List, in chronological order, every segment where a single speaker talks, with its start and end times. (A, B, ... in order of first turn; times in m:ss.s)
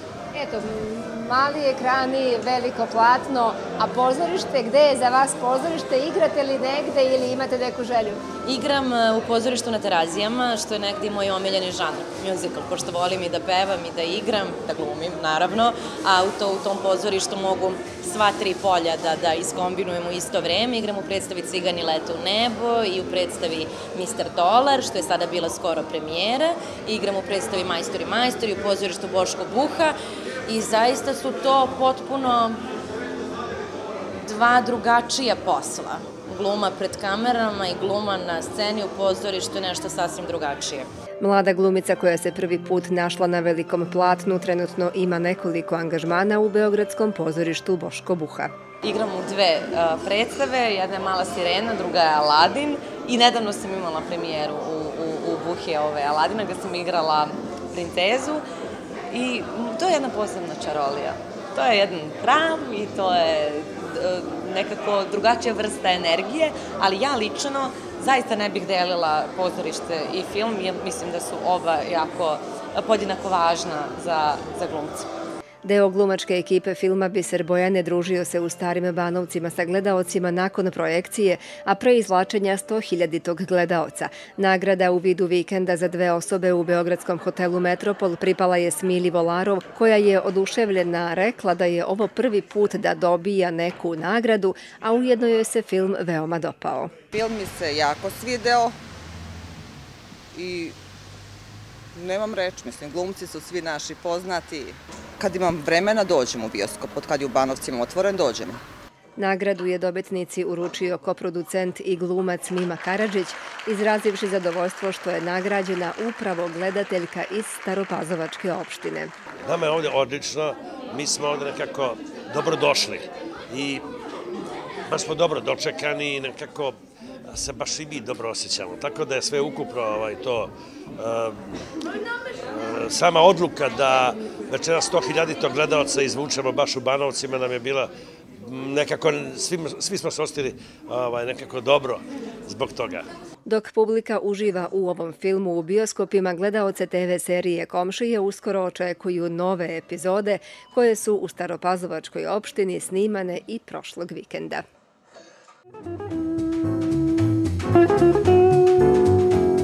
0:00.3-0:08.2 A
0:08.4-0:30.0 B
0:30.5-0:32.6 B
0:34.2-0:40.9 B
0:41.2-0:48.5 C
0:48.8-0:58.4 B
0:59.1-1:15.1 B
1:15.6-1:37.0 C
1:37.1-1:38.7 D
1:40.3-1:40.7 D
1:41.9-1:48.6 D
1:49.2-1:59.1 C
1:59.4-2:03.8 E
2:04.9-2:11.4 E
2:12.5-2:23.0 E
2:23.4-2:34.6 C